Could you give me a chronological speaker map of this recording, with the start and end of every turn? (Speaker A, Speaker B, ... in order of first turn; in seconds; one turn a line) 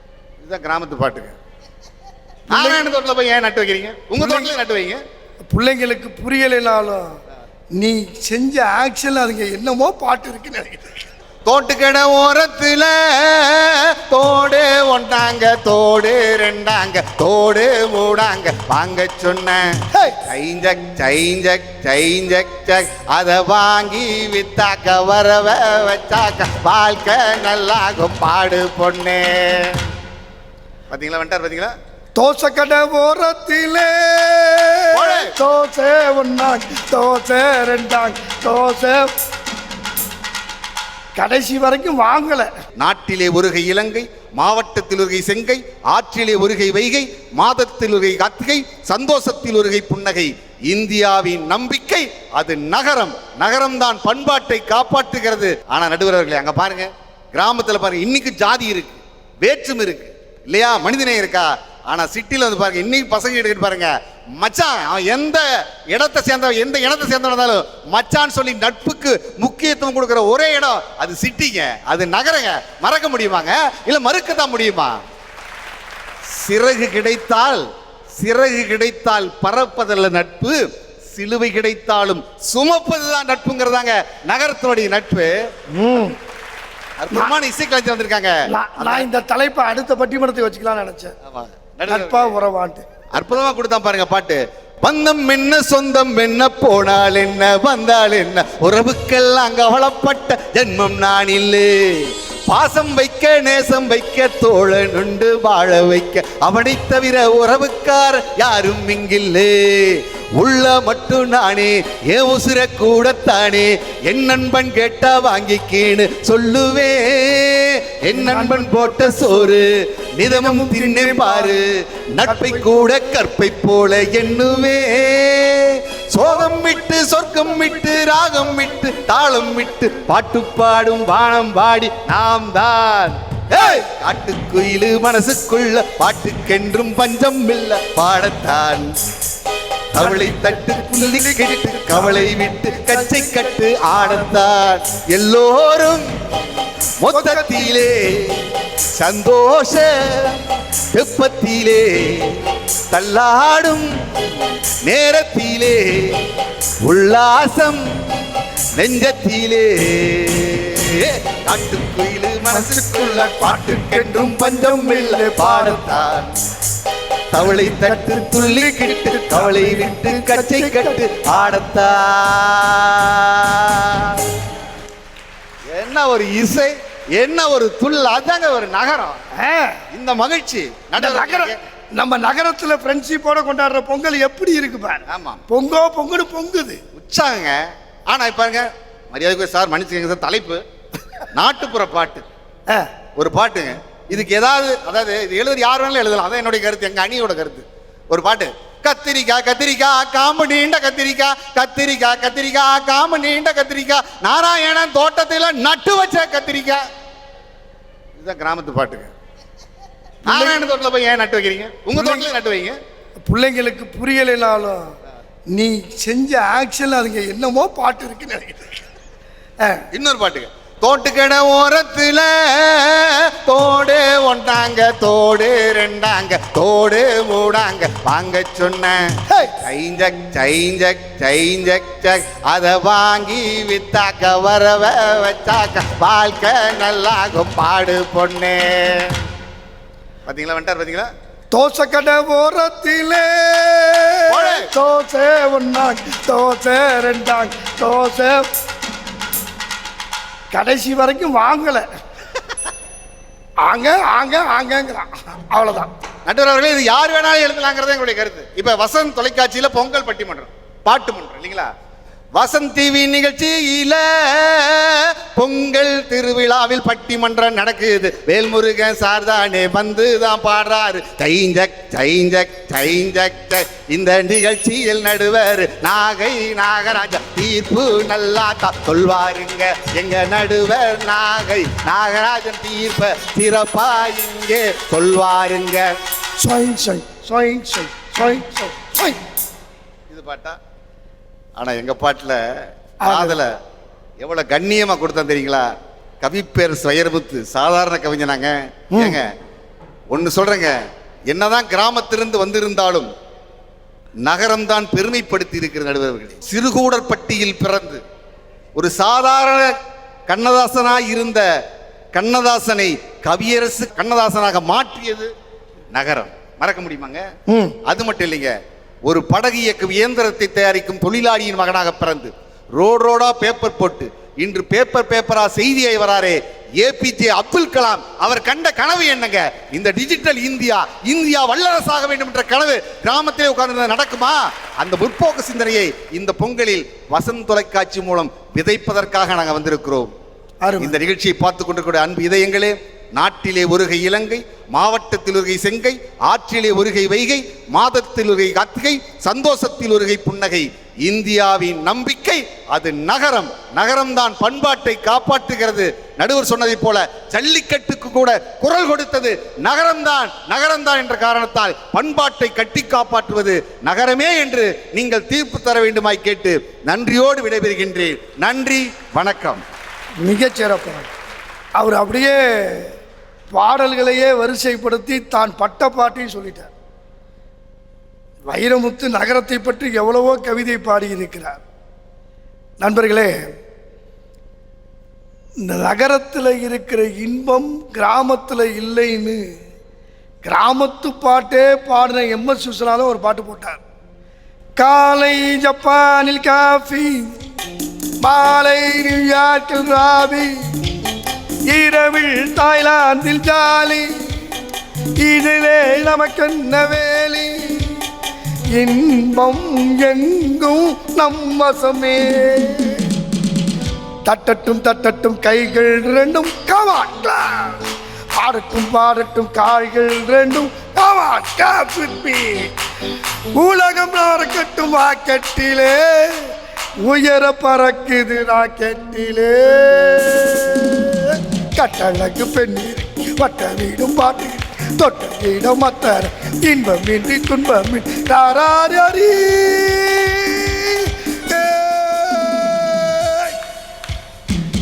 Speaker A: 0.4-1.4
Speaker A: 2.5-5.0
Speaker B: 2.5-2.8
Speaker B: 4.2-4.5
Speaker B: 5.5-7.1
Speaker B: 7.8-10.8
Speaker A: 11.4-19.7
Speaker A: 20.2-29.8
Speaker A: 30.9-31.7
Speaker B: 32.1-39.1
Speaker A: 34.9-35.3
Speaker B: 41.2-42.5
Speaker A: 42.8-75.0
Speaker A: 76.3-77.6
Speaker A: 78.2-85.3
Speaker B: 85.7-86.2
Speaker A: 87.0-89.0
Speaker B: 88.5-91.1
Speaker A: 91.3-92.3
Speaker B: 91.9-92.8
Speaker A: 93.1-138.9
Speaker B: 118.1-119.3
Speaker B: 120.3-121.6
Speaker B: 122.2-123.0
Speaker A: 139.9-146.1
Speaker B: 140.0-143.5
Speaker A: 147.0-148.4
Speaker B: 147.1-147.8
Speaker A: 148.9-152.4
Speaker A: 152.9-153.9
Speaker A: 154.8-156.2
Speaker A: 156.8-157.8
Speaker A: 158.8-166.3
Speaker B: 162.5-165.8
Speaker A: 167.3-174.2
Speaker B: 167.5-171.0
Speaker A: 175.7-179.2
Speaker B: 179.3-179.8
Speaker A: 179.9-181.6
Speaker B: 181.0-186.8
Speaker A: 185.1-185.4
Speaker A: 186.9-190.6
Speaker A: 191.3-192.2
Speaker A: 193.2-206.8
Speaker A: 208.2-209.1
Speaker B: 210.2-210.6
Speaker A: 210.2-212.8
Speaker B: 211.9-212.3
Speaker B: 213.2-214.9
Speaker B: 215.5-218.7
Speaker A: 219.9-239.2
Speaker A: 240.2-241.1
Speaker B: 241.5-248.5
Speaker A: 244.3-244.7
Speaker B: 250.5-251.8
Speaker B: 253.7-255.9
Speaker A: 256.2-261.7
Speaker A: 262.4-285.9
Speaker B: 286.4-289.2
Speaker A: 290.1-290.6
Speaker A: 291.6-292.4
Speaker B: 293.0-293.4
Speaker A: 293.0-293.5
Speaker A: 294.2-295.6
Speaker A: 296.2-299.3
Speaker B: 298.9-299.2
Speaker A: 300.1-303.1
Speaker A: 304.2-308.0
Speaker A: 308.8-309.7
Speaker A: 310.3-311.4
Speaker A: 312.1-315.3
Speaker A: 315.9-317.2
Speaker B: 317.5-317.8
Speaker A: 317.9-318.5
Speaker A: 319.1-340.1
Speaker B: 340.6-341.0
Speaker A: 340.8-369.6
Speaker B: 370.2-371.1
Speaker B: 371.8-372.9
Speaker B: 373.5-376.7
Speaker B: 378.5-381.6
Speaker B: 382.8-383.4
Speaker B: 385.6-389.4
Speaker B: 390.4-393.8
Speaker B: 394.8-397.3
Speaker B: 398.2-400.5
Speaker B: 401.7-404.2
Speaker B: 405.2-408.1
Speaker B: 408.8-413.1
Speaker B: 414.3-417.8
Speaker B: 418.4-422.7
Speaker B: 423.5-426.5
Speaker B: 427.0-443.6